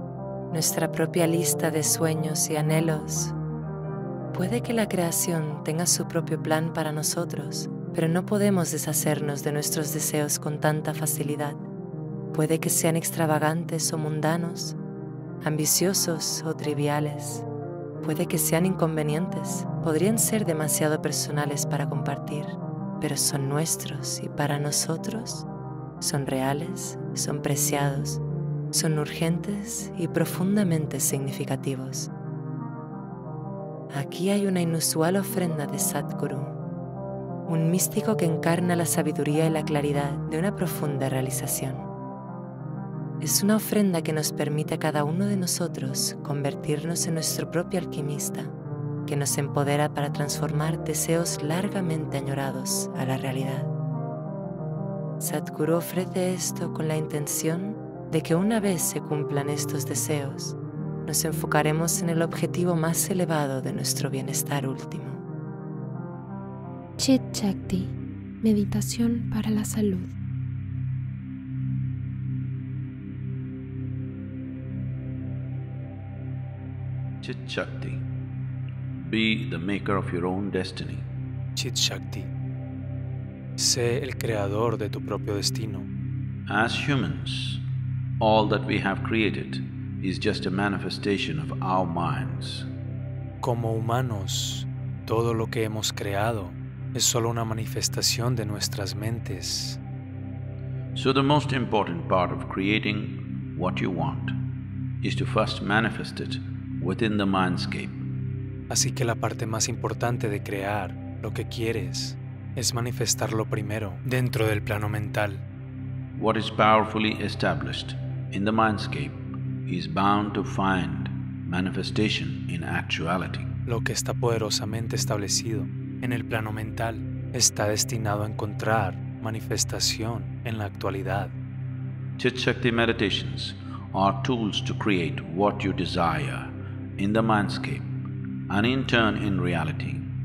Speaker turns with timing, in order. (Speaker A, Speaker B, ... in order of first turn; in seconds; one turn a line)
Speaker A: 0.5-3.3
Speaker A: 4.3-11.6
Speaker A: 12.3-14.8
Speaker A: 15.4-17.4
Speaker A: 18.0-25.4
Speaker A: 26.0-28.2
Speaker A: 28.7-32.1
Speaker A: 33.9-36.5
Speaker A: 37.5-41.9
Speaker A: 43.2-48.5
Speaker A: 49.0-53.7
Speaker A: 55.2-65.2
Speaker B: 67.0-70.1
Speaker C: 77.2-78.0
Speaker C: 79.0-81.0
Speaker D: 81.5-82.3
Speaker D: 83.6-85.9
Speaker C: 86.5-87.6
Speaker C: 88.2-92.7
Speaker D: 93.4-99.8
Speaker C: 100.9-104.4
Speaker C: 105.0-108.0
Speaker D: 108.7-115.4
Speaker C: 116.2-123.5
Speaker D: 123.7-131.3
Speaker C: 132.2-137.9
Speaker C: 138.5-140.1